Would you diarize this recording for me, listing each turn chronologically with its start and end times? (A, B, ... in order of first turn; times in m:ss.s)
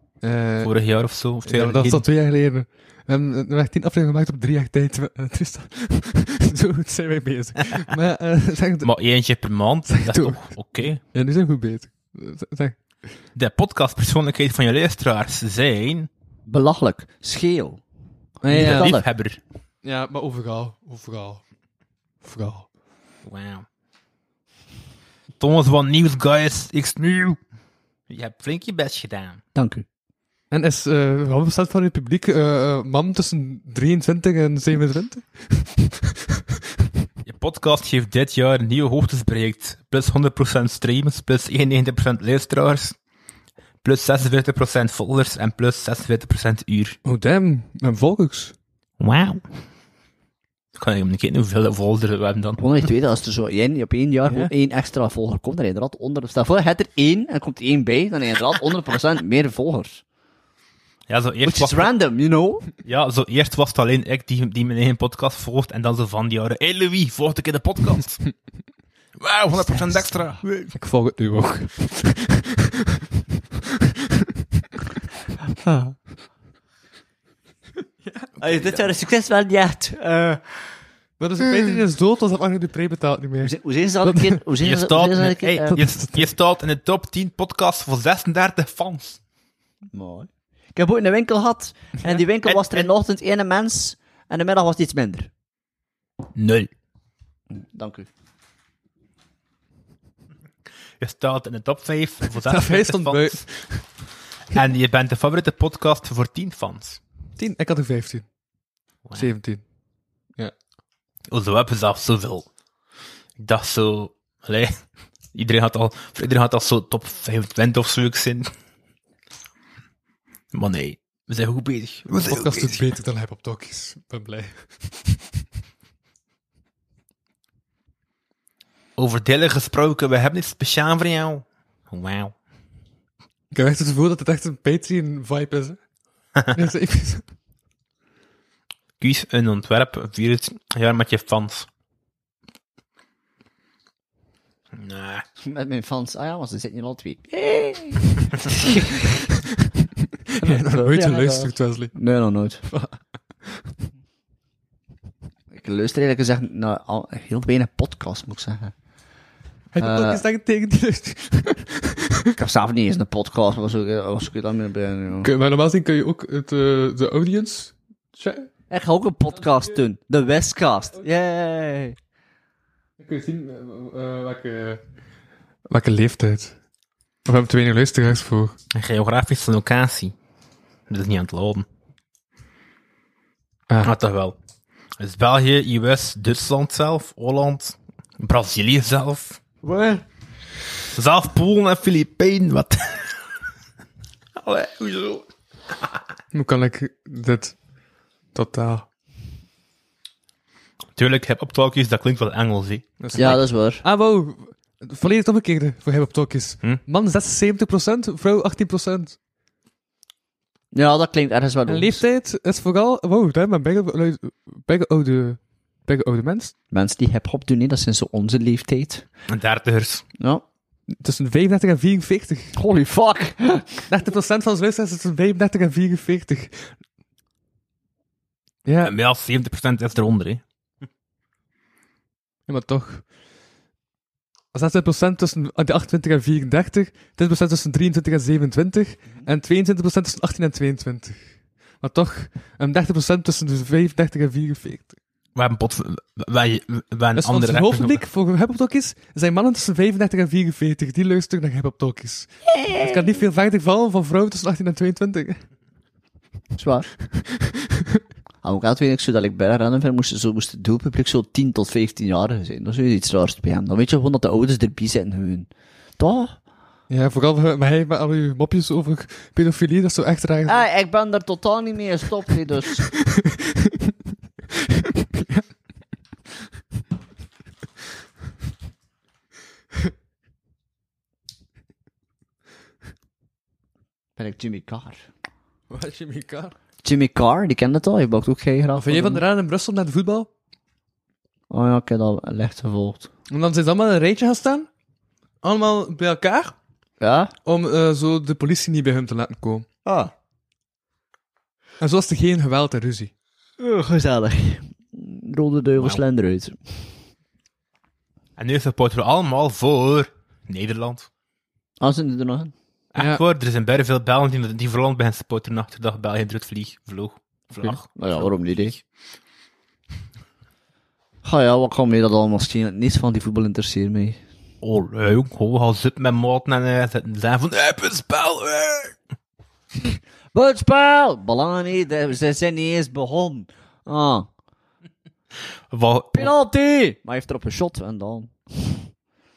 0:00.2-0:00.7 A
0:00.6-0:02.0 B
0:01.4-0:08.9 A
0:08.8-0:11.0 B
0:09.9-0:10.4 A
0:11.0-0:12.8 A
0:13.4-0:16.1 B
0:16.5-0:17.8 C
0:18.4-0:19.0 A
0:18.5-0:19.0 C
0:18.5-0:19.4 B
0:19.8-0:21.4 A
0:22.2-0:22.7 A
0:23.2-0:23.6 B
0:25.4-0:27.4 B
0:28.1-0:29.4 B
0:29.6-0:29.8 C
0:30.5-0:36.9 A
0:37.2-0:43.0 B
0:43.8-0:47.0 B
0:47.0-0:48.5 A
0:49.0-0:49.4 B
0:50.8-0:52.6 B
0:52.6-1:00.0 C
1:01.1-1:01.9 B
1:01.4-1:02.7 C
1:02.8-1:08.2 B
1:09.2-1:10.4 B
1:10.4-1:13.1 A
1:13.8-1:14.6 A
1:15.6-1:15.9 C
1:18.0-1:18.3 A
1:18.4-1:20.4 C
1:21.2-1:24.4 A
1:23.4-1:25.8 C
1:24.6-1:29.2 B
1:25.8-1:26.3 A
1:29.9-1:35.3 C
1:32.4-1:32.9 B
1:36.4-1:36.7 B
1:37.5-1:38.1 C
1:41.0-1:43.4 B
1:42.4-1:43.8 A
1:44.5-1:47.0 B
1:47.4-1:48.3 A
1:49.2-1:49.6 A
1:51.3-1:52.5 B
1:53.4-1:54.7 B
1:55.3-1:58.5 B
2:00.5-2:02.8 B
2:02.1-2:05.3 A
2:09.0-2:12.3 B
2:13.5-2:15.8 A
2:16.5-2:17.2 A
2:19.0-2:21.7 B
2:24.7-2:25.2 B
2:25.4-2:29.0 C
2:30.3-2:31.9 A
2:30.4-2:32.6 C
2:32.7-2:33.8 A
2:35.5-2:38.7 C
2:39.7-2:42.4 A
2:39.8-2:40.2 C
2:42.4-2:45.3 C
2:45.2-2:48.5 A
2:48.7-2:52.0 C
2:53.0-2:54.8 A
2:55.7-2:56.6 A
2:57.3-2:58.6 A
2:58.7-3:00.1 B
3:00.9-3:01.6 B
3:03.8-3:04.4 B
3:05.0-3:09.4 B
3:09.6-3:10.0 C
3:10.9-3:13.2 B
3:14.4-3:15.3 B
3:16.3-3:17.6 A
3:18.3-3:18.9 A
3:21.0-3:23.4 B
3:23.0-3:29.2 A
3:23.2-3:23.8 C
3:30.7-3:32.0 C
3:31.7-3:36.5 A
3:36.7-3:39.1 C
3:39.3-3:40.0 B
3:40.2-3:40.4 C
3:40.9-3:42.6 A
3:42.6-3:43.9 C
3:43.9-3:46.7 A
3:48.6-3:48.9 A
3:48.8-3:50.4 B
3:52.5-3:53.0 A
3:54.5-4:01.3 A
4:01.8-4:04.9 A
4:05.4-4:08.0 B
4:07.1-4:12.3 A
4:12.5-4:13.2 C
4:12.8-4:15.4 A
4:16.6-4:16.9 C
4:17.1-4:18.0 A
4:18.4-4:26.4 C
4:26.9-4:30.6 A
4:30.5-4:32.9 C
4:33.0-4:33.9 A
4:34.6-4:35.4 A
4:44.2-4:45.0 C
4:45.7-4:46.5 A
4:46.8-4:49.2 C
4:48.8-4:50.3 A
4:51.5-4:53.1 C
4:53.3-4:54.7 A
4:55.4-4:56.6 A
4:57.0-4:57.3 C
4:57.4-4:59.7 A
4:59.9-5:00.1 C
5:01.8-5:03.1 A
5:03.6-5:06.9 C
5:08.4-5:11.1 B
5:11.8-5:12.5 C
5:12.9-5:18.8 B
5:13.0-5:13.2 A
5:18.0-5:18.7 C
5:21.2-5:24.2 C
5:24.6-5:29.0 B
5:30.3-5:34.3 C
5:35.7-5:36.3 B
5:36.1-5:38.8 C